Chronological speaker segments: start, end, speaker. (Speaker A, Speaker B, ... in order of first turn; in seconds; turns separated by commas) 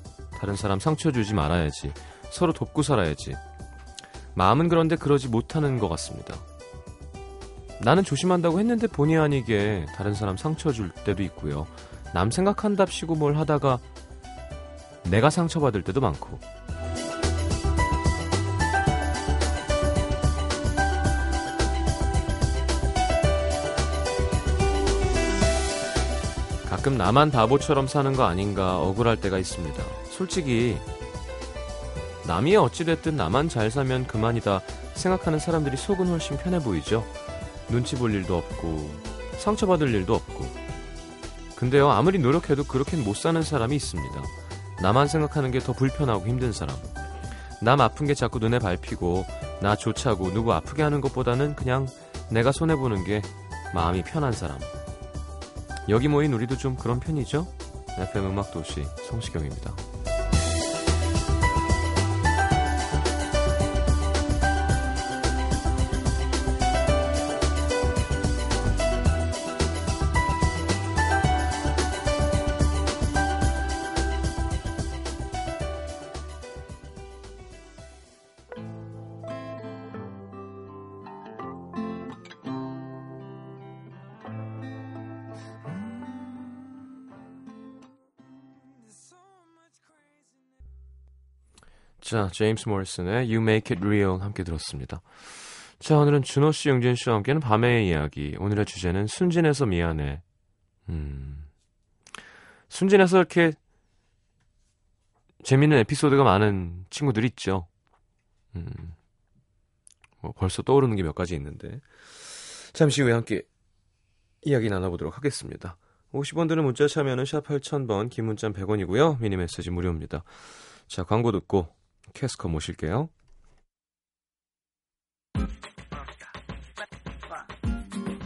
Speaker A: 0.3-3.4, Speaker A: 4.3-6.4, Speaker A: 7.8-13.8, Speaker A: 15.0-16.4, Speaker A: 26.6-30.8, Speaker A: 32.2-37.1, Speaker A: 37.7-40.5, Speaker A: 41.5-46.9, Speaker A: 47.6-54.7, Speaker A: 55.9-59.8, Speaker A: 92.0-100.2, Speaker A: 100.9-101.5, Speaker A: 102.7-103.6, Speaker A: 105.4-107.7, Speaker A: 108.5-109.0, Speaker A: 110.2-113.5, Speaker A: 114.4-123.1